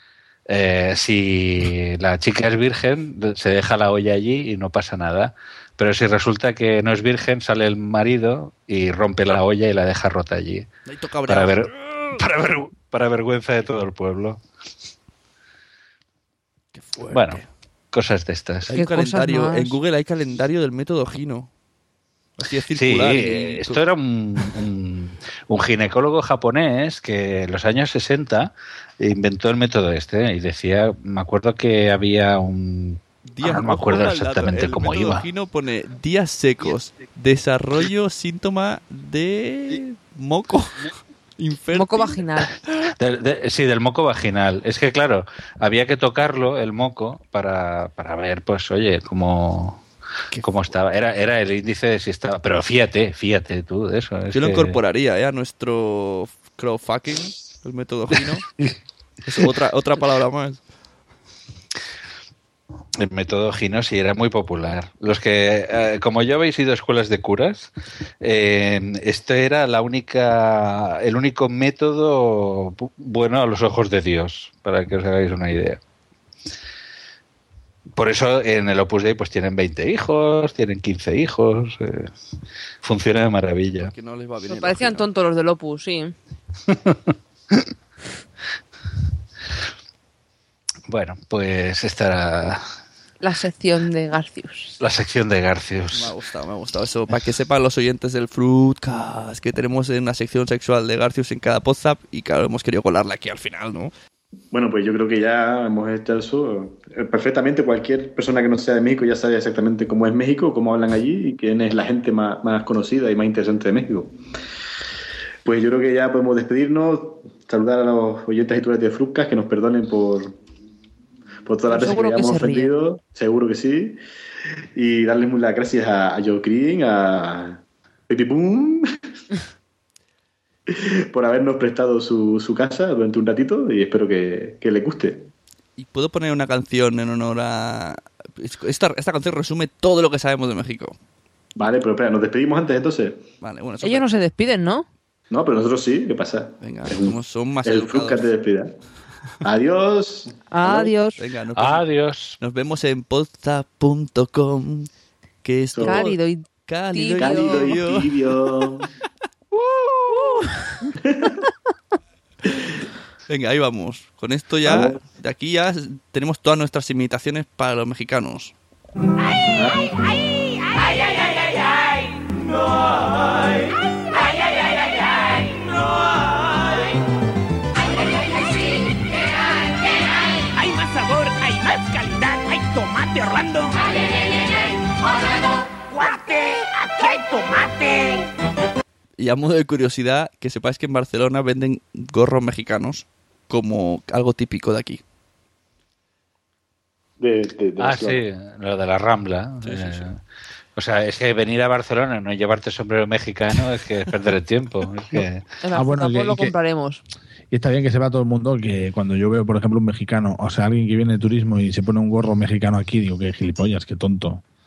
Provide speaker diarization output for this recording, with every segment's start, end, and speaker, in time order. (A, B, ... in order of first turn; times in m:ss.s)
0:00.5-0:10.7 A
0:10.9-0:11.7 B
0:11.3-0:14.4 A
0:16.7-0:17.5 B
0:17.1-0:17.4 A
0:17.9-0:18.7 A
0:18.7-0:21.5 B
0:18.7-0:19.8 C
0:22.4-0:23.8 B
0:22.7-0:35.2 A
0:33.3-0:42.3 B
0:41.7-0:42.5 C
0:43.0-0:49.8 A
0:50.3-0:50.7 B
0:50.4-0:54.8 A
0:54.3-0:58.4 B
0:59.2-1:00.6 B
1:03.0-1:15.8 A
1:17.9-1:22.1 A
1:22.8-1:23.9 A
1:23.8-1:25.0 B
1:24.4-1:26.1 C
1:26.7-1:27.0 A
1:30.9-1:32.6 A
1:33.2-1:34.8 C
1:34.8-1:36.1 A
1:35.9-1:43.9 B
1:44.5-1:54.1 D
1:55.4-2:00.4 D
2:01.4-2:04.0 D
2:01.7-2:02.7 C
2:04.7-2:08.9 D
2:10.7-2:15.3 D
2:15.8-2:21.0 B
2:21.6-2:23.2 D
2:23.4-2:24.1 B
2:23.8-2:24.8 C
2:25.3-2:28.7 D
2:26.6-2:28.2 B
2:29.4-2:30.9 D
2:30.5-2:31.2 C
2:31.2-2:31.8 B
2:31.6-2:32.4 A
2:32.4-2:34.9 B
2:35.4-2:38.2 B
2:35.7-2:36.0 D
2:35.8-2:37.8 C
2:37.2-2:38.9 D
2:40.1-2:40.7 C
2:41.0-2:41.4 D
2:43.3-2:48.5 B
2:44.6-2:45.0 D
2:49.5-2:49.9 D
2:50.7-2:51.9 E
2:54.2-2:56.6 E
3:00.5-3:03.9 E
3:05.9-3:08.3 E
3:09.2-3:15.0 B
3:17.2-3:18.2 D
3:17.8-3:20.2 A
3:19.6-3:20.0 B
3:20.8-3:25.6 A
3:25.6-3:27.0 C
3:25.8-3:26.5 F
3:27.5-3:34.4 F